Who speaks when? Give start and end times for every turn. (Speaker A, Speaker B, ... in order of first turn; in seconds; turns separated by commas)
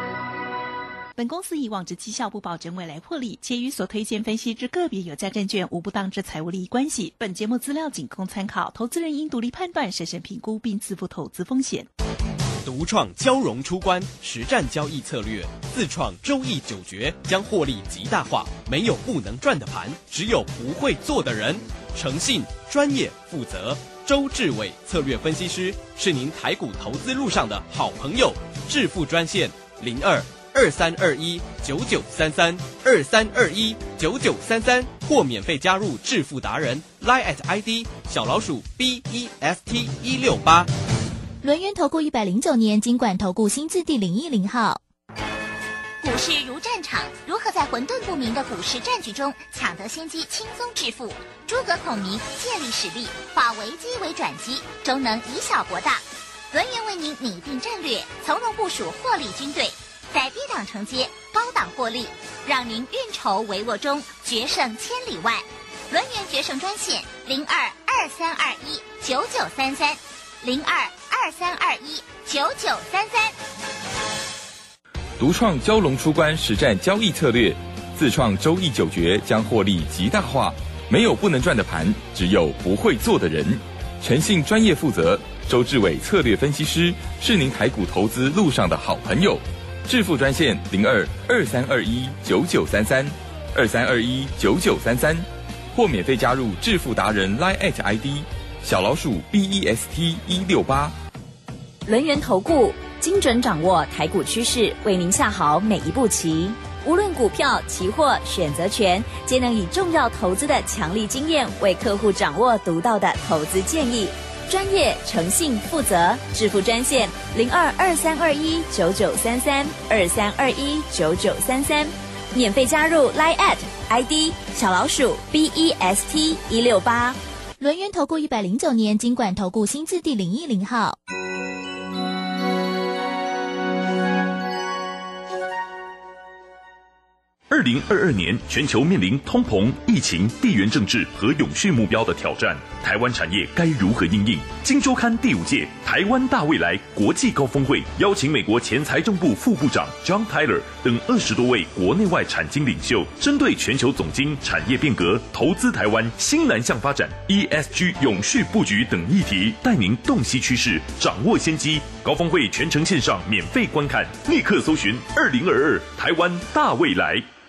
Speaker A: 1.2-11.9, Speaker B: 12.6-40.7, Speaker C: 41.4-44.8, Speaker D: 46.0-73.3, Speaker E: 75.2-101.0, Speaker F: 101.9-127.2, Speaker C: 127.6-131.0, Speaker G: 137.5-167.3